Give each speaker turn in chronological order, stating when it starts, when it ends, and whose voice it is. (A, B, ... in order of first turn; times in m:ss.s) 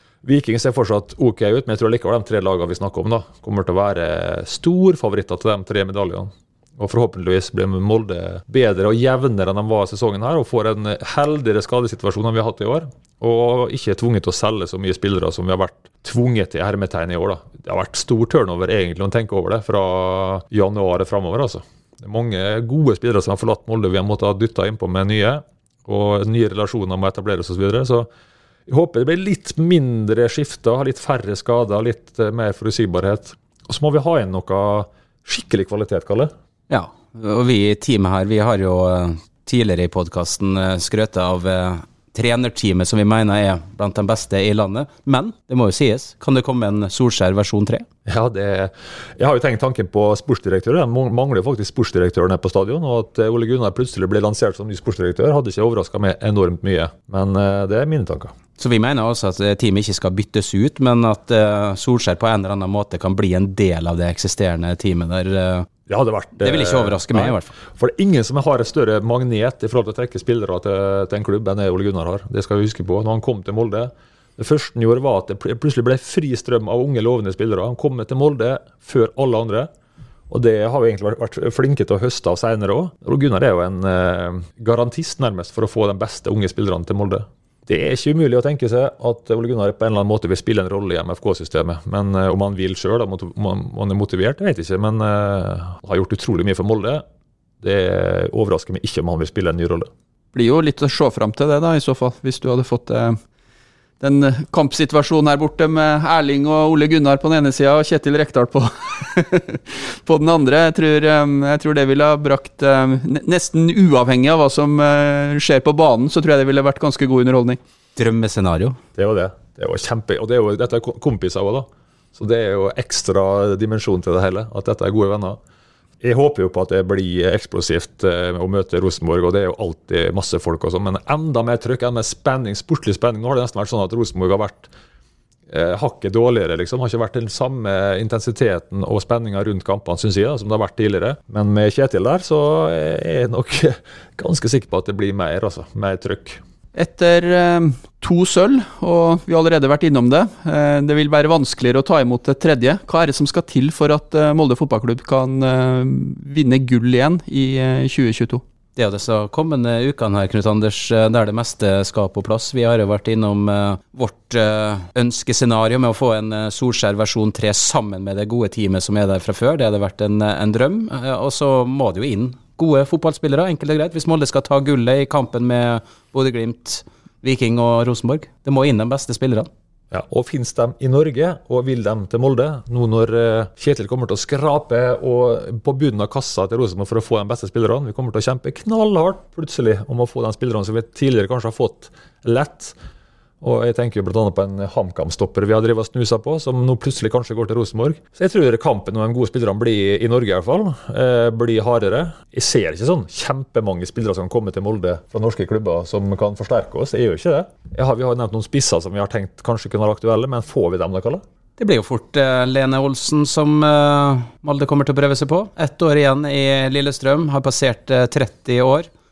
0:00.2-0:28.1 A
0:28.7-0:36.3 A
0:36.7-0:47.9 B
0:48.0-0:58.3 A
0:58.6-1:05.7 B
1:05.9-1:19.7 A
1:06.4-1:07.5 B
1:20.3-1:37.0 A
1:37.6-1:39.9 A
1:40.3-1:43.2 C
1:44.0-1:57.6 C
1:58.0-1:58.8 B
1:59.0-2:05.4 A
2:06.0-2:14.7 A
2:15.5-2:26.4 A
2:26.7-2:38.4 C
2:38.8-2:59.5 B
2:59.9-3:12.8 A
3:13.4-3:31.2 A
3:31.6-3:38.9 B